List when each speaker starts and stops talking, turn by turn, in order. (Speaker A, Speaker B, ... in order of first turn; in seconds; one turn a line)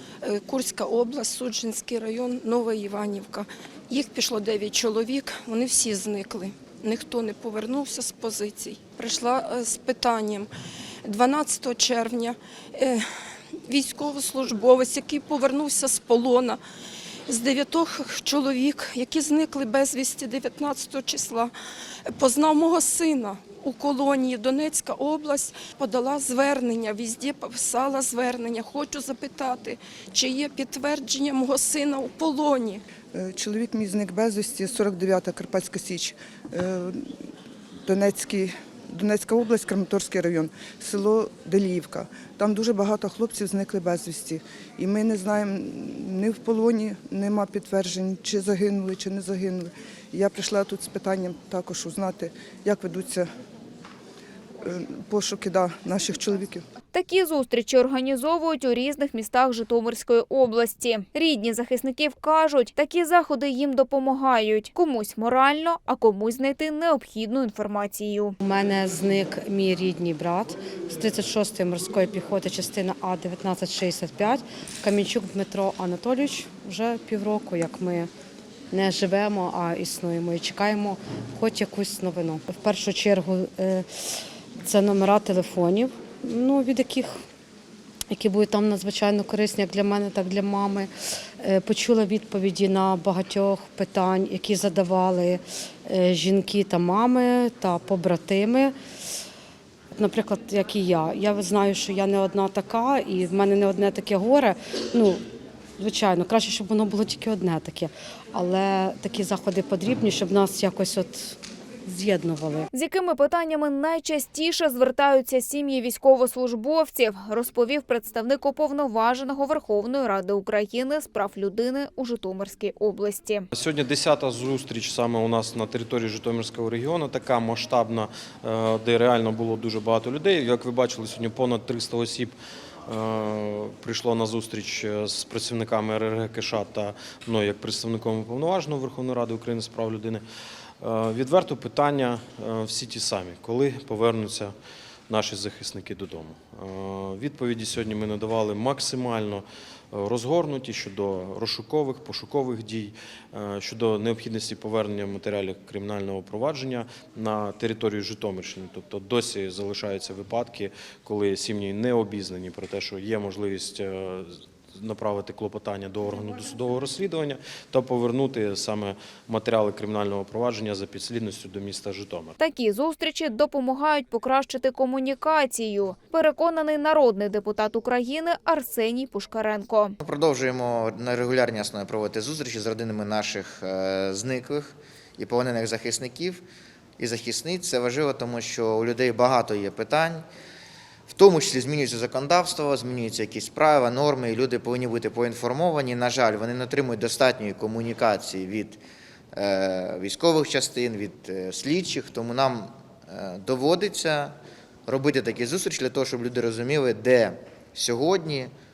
Speaker A: 0.2-10.5
Speaker A: 11.1-13.1
Speaker A: 13.7-16.6
Speaker A: 17.3-21.5
Speaker A: 22.1-32.8
Speaker B: 33.1-37.1
Speaker B: 37.9-53.3
Speaker B: 54.6-56.6
Speaker C: 56.9-68.3
Speaker D: 68.4-78.1
Speaker D: 78.7-87.2
Speaker D: 88.1-98.8
Speaker D: 100.0-105.2
Speaker D: 105.8-112.7
Speaker C: 112.7-123.5
Speaker E: 123.5-132.3
Speaker E: 132.9-140.2
Speaker E: 140.8-144.5
Speaker E: 145.1-172.3
Speaker C: 172.4-179.9
Speaker F: 180.0-186.4
Speaker F: 187.0-190.2
Speaker F: 191.1-198.8
Speaker F: 199.3-204.4
Speaker F: 204.9-208.5